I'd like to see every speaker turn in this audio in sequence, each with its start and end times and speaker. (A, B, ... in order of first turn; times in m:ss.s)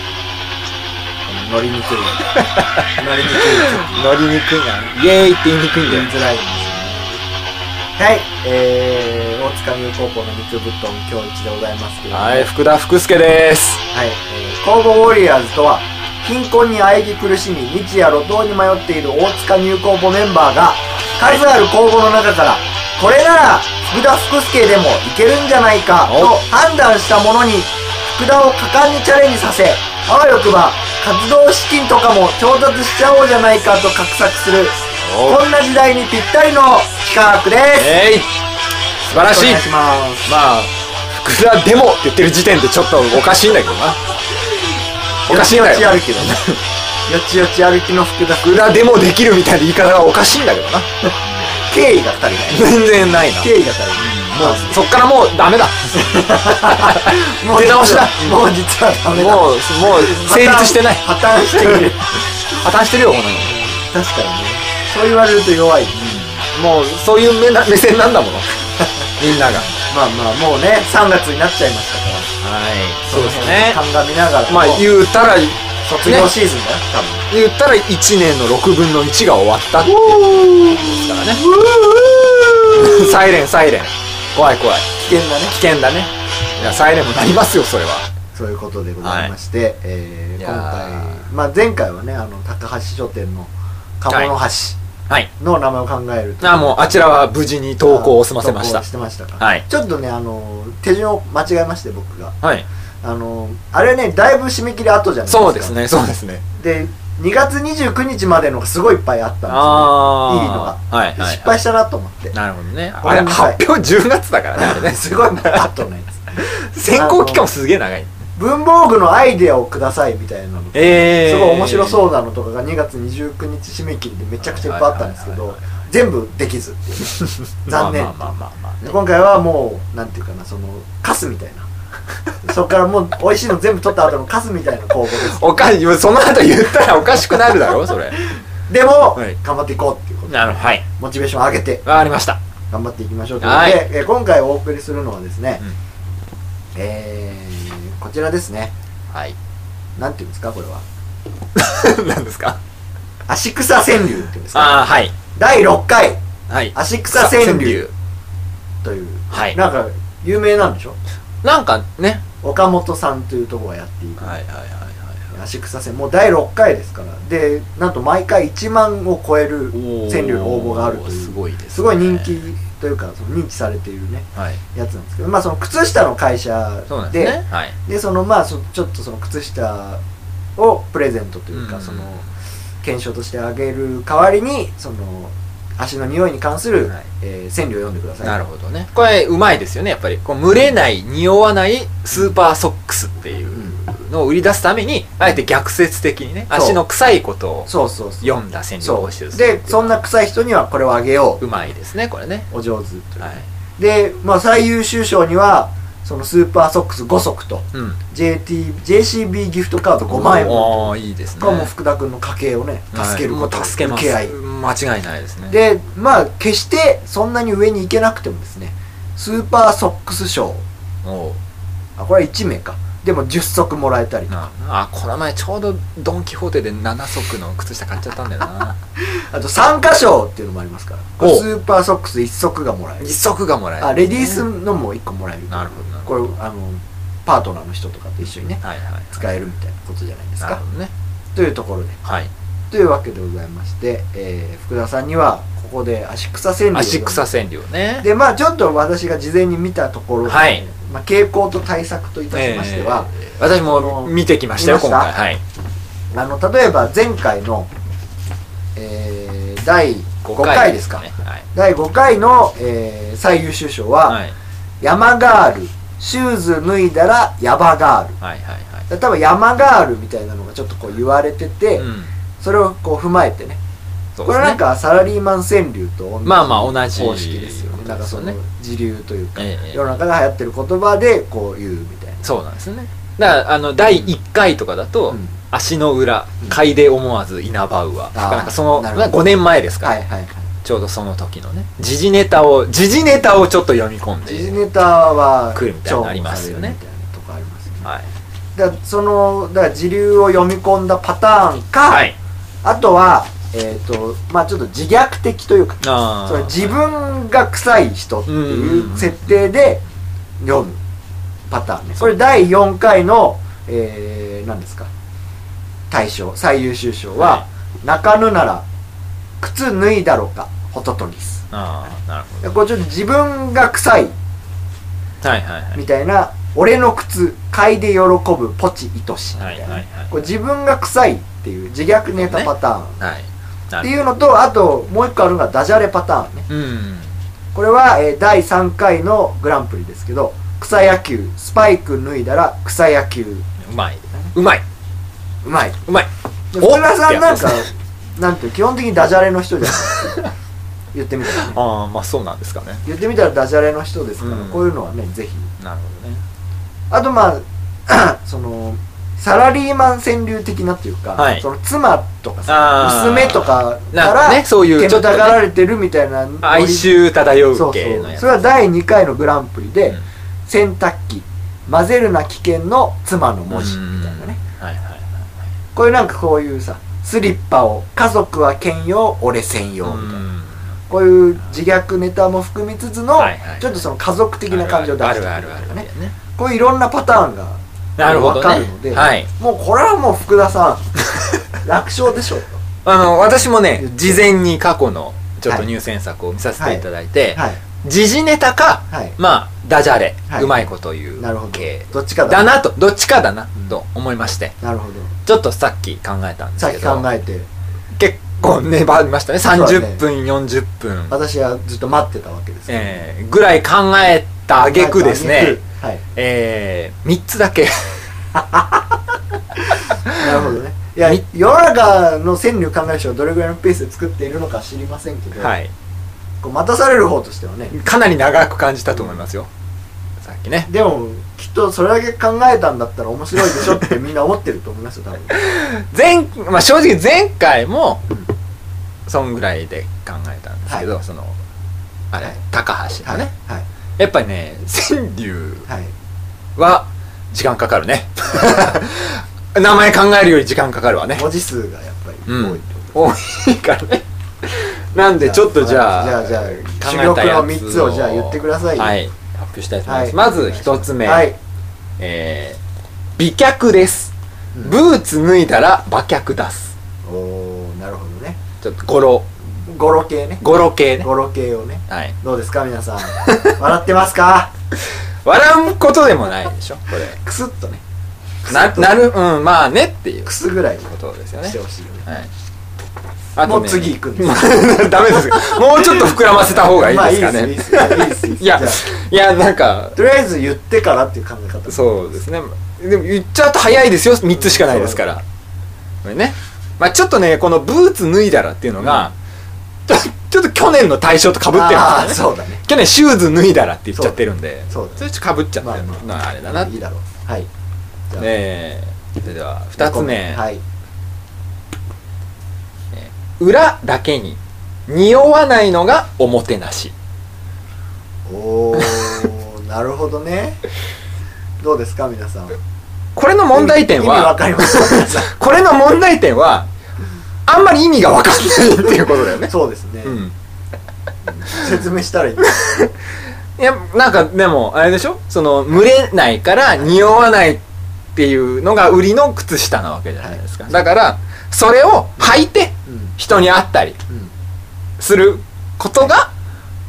0:01.2-0:02.2 A
0:02.6-0:03.0 B
0:03.0-0:04.1 A
0:03.8-0:06.1 B
0:05.8-0:07.2 A
0:08.0-0:12.5 A
0:12.1-0:13.8 B
0:13.9-0:37.9 A
0:26.1-0:26.4 B
0:35.0-0:35.4 B
0:37.8-0:38.3 B
0:39.1-0:39.6 B
0:39.1-0:40.3 A
0:40.2-0:44.0 B
0:45.3-0:46.4 A
0:45.3-0:46.6 B
0:47.1-0:48.8 A
0:48.4-0:51.5 B
0:51.5-0:54.8 A
0:52.5-0:58.4 B
0:56.0-1:02.1 A
0:59.1-1:01.9 B
1:02.5-1:03.5 B
1:03.4-1:06.0 A
1:05.9-1:09.8 B
1:09.8-1:12.3 A
1:12.4-1:13.8 B
1:13.1-1:14.9 A
1:14.5-1:16.3 B
1:15.8-1:17.2 A
1:17.3-1:21.4 B
1:19.8-1:23.2 A
1:22.7-1:24.9 B
1:25.0-1:25.5 A
1:25.5-1:28.1 B
1:26.6-1:26.9 A
1:28.3-1:34.8 A
1:29.0-1:29.3 B
1:30.4-1:31.2 B
1:34.1-1:34.3 B
1:35.4-1:37.1 A
1:36.4-1:38.8 B
1:37.8-1:42.4 A
1:43.0-1:45.8 A
1:45.3-1:46.4 B
1:46.6-1:52.3 A
1:49.5-1:51.6 B
1:52.3-1:55.7 B
1:53.0-1:53.6 A
1:54.5-1:57.5 A
1:56.4-1:58.2 B
1:58.4-2:08.3 A
2:00.7-2:02.1 B
2:04.4-2:05.6 B
2:07.6-2:09.0 B
2:08.8-2:11.7 A
2:12.4-2:15.8 A
2:15.1-2:18.2 B
2:17.3-2:17.8 A
2:18.3-2:21.8 A
2:20.3-2:20.8 B
2:21.8-2:22.4 B
2:22.7-2:25.6 A
2:23.4-2:23.9 B
2:26.7-2:28.7 A
2:30.0-2:30.8 A
2:31.6-2:32.6 B
2:33.3-2:36.2 A
2:34.5-2:35.1 B
2:36.5-2:37.9 B
2:36.7-2:37.9 A
2:38.8-2:41.0 A
2:39.3-2:39.6 B
2:41.4-2:42.2 B
2:42.4-2:44.4 A
2:44.2-2:45.2 B
2:45.3-3:00.0 A
2:49.7-2:52.4 B
2:54.3-2:54.6 B
2:56.9-2:57.7 B
3:00.6-3:02.2 A
3:01.5-3:02.2 B
3:02.8-3:08.4 A
3:08.2-3:17.7 B
3:16.5-3:16.8 A
3:17.6-3:21.4 A
3:18.2-3:20.0 B
3:21.4-3:22.5 B
3:22.5-3:34.3 A
3:23.2-3:23.4 B
3:27.7-3:28.0 B
3:30.0-3:31.7 B
3:32.9-3:35.5 B
3:35.5-3:40.6 A
3:41.0-3:41.4 B
3:42.0-3:44.3 A
3:44.3-3:48.8 B
3:49.1-3:53.1 A
3:51.2-3:51.5 B
3:53.0-3:54.4 B
3:53.8-4:00.6 A
3:55.5-3:56.3 B
3:58.6-3:59.2 B
4:00.4-4:00.9 B
4:01.3-4:02.0 A
4:02.0-4:02.3 B
4:02.7-4:07.2 A
4:06.7-4:08.1 B
4:08.0-4:15.1 A
4:10.2-4:10.6 B
4:12.3-4:15.4 B
4:16.1-4:17.7 A
4:18.7-4:24.2 A
4:20.2-4:21.4 B
4:24.1-4:24.3 B
4:24.8-4:28.2 A
4:28.2-4:28.8 B
4:28.9-4:31.9 A
4:31.8-4:32.1 B
4:32.4-4:33.6 A
4:34.2-4:34.6 B
4:34.2-4:42.3 A
4:36.2-4:38.4 B
4:39.4-4:39.8 B
4:42.2-4:49.9 B
4:45.1-4:45.4 A
4:48.1-4:49.2 A
4:49.8-4:50.5 A
4:50.6-4:54.6 B
4:54.2-4:57.9 A
4:55.5-4:56.8 B
4:58.6-5:02.1 A
5:01.9-5:02.2 B
5:02.6-5:09.8 A
5:05.8-5:06.8 B
5:08.3-5:09.3 B
5:10.4-5:10.8 A
5:11.5-5:14.9 A
5:15.9-5:18.6 A
5:17.2-5:17.4 B
5:19.4-5:21.4 A
5:21.5-5:22.5 B
5:22.4-5:24.1 A
5:25.2-5:25.8 B
5:25.7-5:33.0 A
5:29.4-5:30.1 B
5:32.2-5:32.5 B
5:33.0-5:33.9 B
5:33.8-5:36.5 A
5:36.5-5:37.1 B
5:37.5-5:43.4 A
5:43.6-5:44.6 B
5:45.4-5:45.8 A
5:45.9-5:47.7 B
5:46.5-5:50.3 A
5:49.8-5:50.3 B
5:50.9-5:51.6 A
5:51.4-5:52.8 B
5:52.8-5:55.5 A
5:54.2-5:54.7 B
5:55.6-5:56.2 B
5:56.9-6:06.9 A
6:01.2-6:01.4 B
6:02.5-6:05.4 B
6:06.4-6:08.5 B
6:07.5-6:14.4 A
6:13.5-6:15.2 B
6:15.7-6:20.2 A
6:19.8-6:20.5 B
6:20.9-6:30.8 A
6:23.2-6:23.8 B
6:24.5-6:26.2 B
6:28.0-6:29.3 B
6:31.6-6:32.6 A
6:32.8-6:44.5 B
6:33.8-6:34.2 A
6:36.6-6:37.6 A
6:38.9-6:39.2 A
6:40.3-6:42.6 A
6:44.6-6:45.1 A
6:45.2-6:47.0 B
6:46.6-6:47.5 A
6:48.0-6:51.2 B
6:49.5-6:50.0 A
6:51.1-6:53.1 A
6:52.7-6:55.6 B
6:54.6-6:56.0 A
6:56.2-6:58.1 B
6:58.3-6:59.0 A
6:59.6-7:05.5 A
7:00.2-7:00.4 B
7:05.4-7:05.7 B
7:06.4-7:07.8 A
7:07.7-7:09.5 B
7:08.9-7:09.2 A
7:10.2-7:10.7 B
7:10.7-7:15.4 A
7:13.5-7:13.8 B
7:15.3-7:18.0 B
7:19.1-7:21.4 B
7:22.1-7:23.3 B
7:23.0-7:23.6 A
7:24.0-7:25.7 B
7:25.7-7:25.9 A
7:26.6-7:31.2 B
7:31.1-7:32.9 A
7:32.3-7:41.3 B
7:35.0-7:39.0 A
7:39.8-7:41.4 A
7:42.0-7:42.6 B
7:43.2-7:44.1 B
7:44.6-7:46.7 B
7:47.0-7:48.4 A
7:48.6-7:49.3 B
7:49.6-7:54.5 A
7:50.4-7:51.1 B
7:51.9-7:52.2 B
7:53.1-7:53.6 B
7:55.2-7:57.2 B
7:57.1-7:57.8 A
7:58.4-7:59.1 A
7:58.5-8:02.3 B
8:00.2-8:00.9 A
8:01.4-8:02.1 A
8:03.3-8:10.0 B
8:03.4-8:08.8 A
8:10.0-8:12.2 A
8:11.7-8:15.2 B
8:14.3-8:15.0 A
8:16.0-8:19.1 B
8:18.8-8:19.1 A
8:19.9-8:26.7 B
8:21.5-8:22.6 A
8:24.7-8:25.1 A
8:25.6-8:27.5 A
8:28.2-8:30.4 B
8:29.8-8:30.6 A
8:32.9-8:36.9 B
8:38.3-8:40.6 A
8:38.8-8:39.3 B
8:41.6-8:42.6 A
8:43.1-8:46.7 B
8:43.5-8:45.3 A
8:47.5-8:49.5 B
8:49.3-8:50.2 A
8:50.0-8:50.3 B
8:51.2-8:52.8 A
8:52.6-8:52.9 B
8:53.6-8:57.6 B
8:58.1-9:04.0 B
9:00.2-9:00.9 A
9:02.9-9:03.1 A
9:05.0-9:06.3 B